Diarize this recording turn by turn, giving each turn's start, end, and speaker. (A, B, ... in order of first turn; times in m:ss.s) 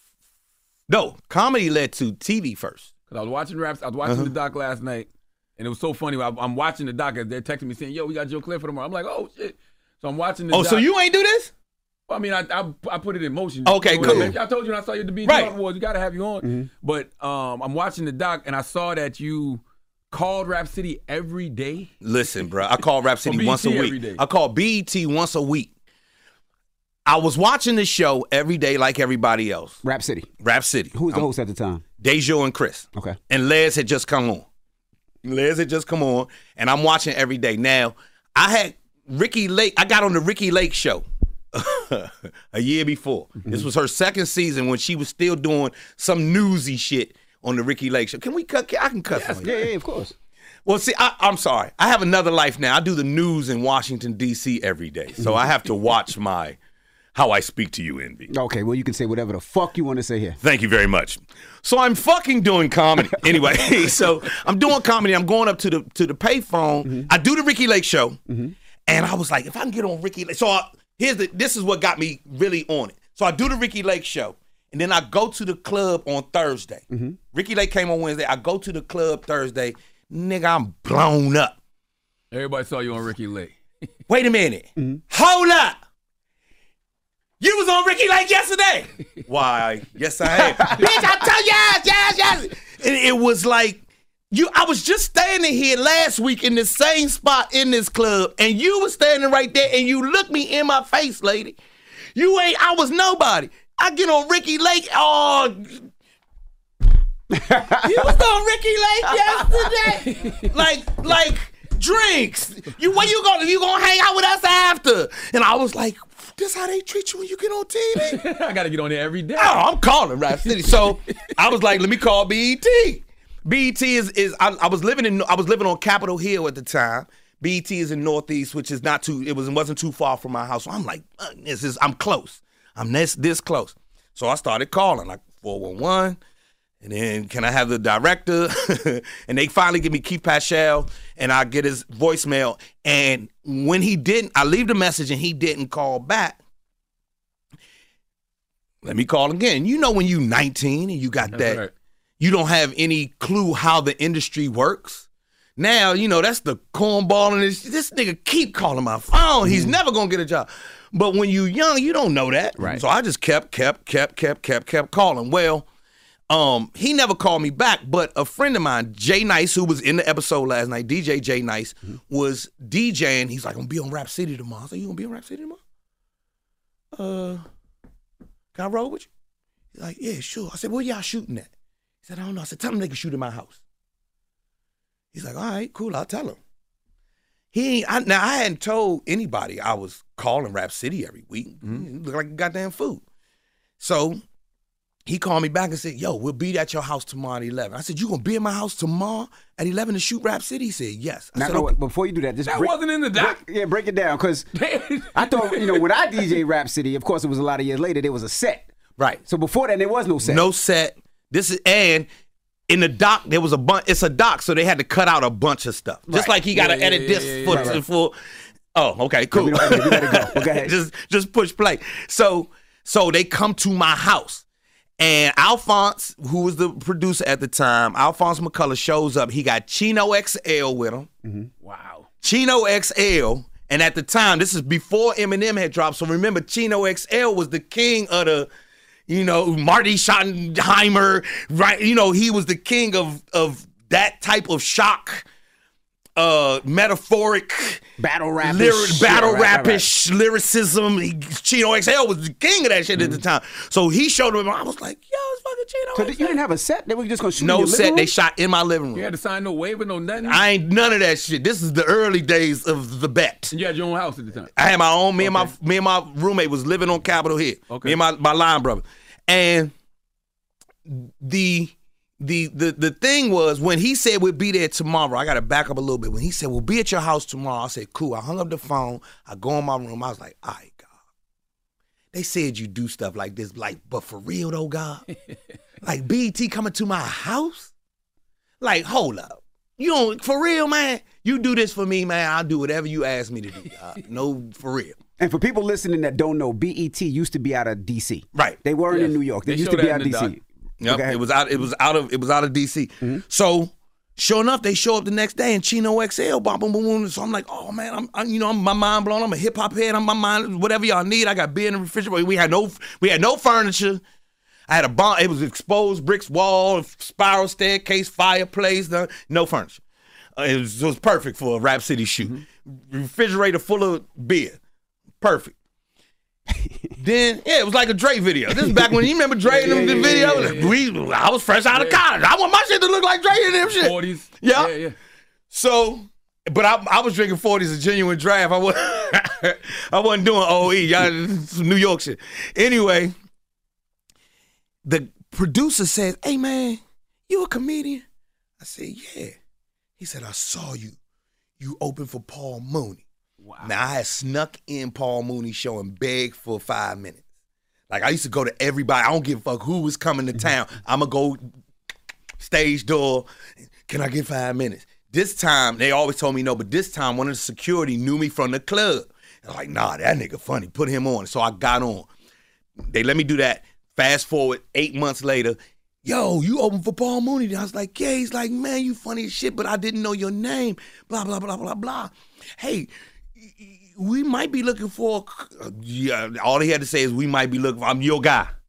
0:00.9-0:02.9 A
0:03.1-0:10.9 B
0:04.0-0:04.3 A
0:10.5-0:11.5 A
0:12.1-0:21.9 B
0:13.6-0:14.3 A
0:14.0-0:14.3 C
0:15.2-0:15.5 A
0:16.4-0:16.7 C
0:22.0-0:25.7 A
0:23.2-0:24.2 B
0:27.0-0:29.8 A
0:29.8-0:30.3 C
0:30.4-0:31.3 A
0:30.9-0:31.8 C
0:32.0-0:34.4 A
0:35.2-0:49.6 A
0:49.1-0:49.5 B
0:49.4-0:50.1 C
0:50.6-0:56.6 A
0:57.1-0:58.3 A
0:58.3-1:00.4 C
1:00.4-1:08.2 A
1:08.3-1:08.6 C
1:08.8-1:21.6 A
1:16.9-1:17.2 C
1:22.3-1:23.6 B
1:24.1-1:25.8 A
1:24.8-1:25.0 C
1:27.4-1:41.6 A
1:42.1-1:45.8 A
1:47.3-1:48.1 C
1:47.8-1:58.2 A
1:50.0-1:50.5 B
1:57.9-1:59.6 B
1:59.4-2:16.2 A
2:00.3-2:01.3 B
2:16.8-2:26.4 A
2:28.8-2:31.6 A
2:31.3-2:31.7 B
2:32.2-2:35.0 A
2:35.6-2:45.6 A
2:39.4-2:39.8 C
2:42.6-2:42.8 C
2:46.3-2:55.6 A
2:56.9-2:57.4 A
2:58.5-2:59.1 A
2:59.7-3:01.5 A
3:02.0-3:03.6 A
3:05.1-3:06.4 A
3:07.5-3:13.0 A
3:13.8-3:14.2 A
3:15.1-3:21.8 A
3:21.3-3:24.5 C
3:22.5-3:23.4 B
3:24.5-3:25.8 B
3:25.1-3:28.7 C
3:29.2-3:30.4 C
3:30.2-3:32.1 A
3:32.7-3:38.1 A
3:36.1-3:36.3 C
3:36.5-3:37.8 B
3:37.5-3:37.8 C
3:38.7-3:44.4 A
3:39.3-3:40.7 C
3:45.0-3:51.1 A
3:51.2-3:51.5 C
3:51.6-3:52.1 B
3:52.2-3:58.5 A
3:59.1-4:05.2 A
4:06.2-4:07.8 A
4:08.0-4:09.8 C
4:08.4-4:16.4 A
4:15.9-4:18.1 C
4:17.4-4:19.0 A
4:18.9-4:20.4 B
4:20.2-4:23.5 A
4:23.5-4:24.5 B
4:24.6-4:29.7 A
4:25.2-4:25.5 B
4:27.7-4:28.0 B
4:30.9-4:40.9 A
4:42.1-4:45.0 A
4:45.8-4:47.7 A
4:48.6-4:55.0 A
4:55.2-5:01.2 C
4:58.9-5:00.3 B
5:00.8-5:14.0 A
5:14.7-5:19.8 A
5:20.4-5:24.6 A
5:25.2-5:25.5 A
5:27.0-5:34.7 A
5:29.4-5:30.8 B
5:30.0-5:30.4 C
5:31.7-5:32.0 B
5:33.7-5:35.0 B
5:35.5-5:43.1 A
5:44.8-5:48.0 A
5:48.6-5:49.4 A
5:50.0-5:51.0 A
5:51.6-5:53.0 A
5:53.4-5:53.7 B
5:53.6-5:57.2 A
5:57.9-6:01.4 A
6:02.4-6:03.3 A
6:03.9-6:12.1 A
6:12.9-6:28.5 A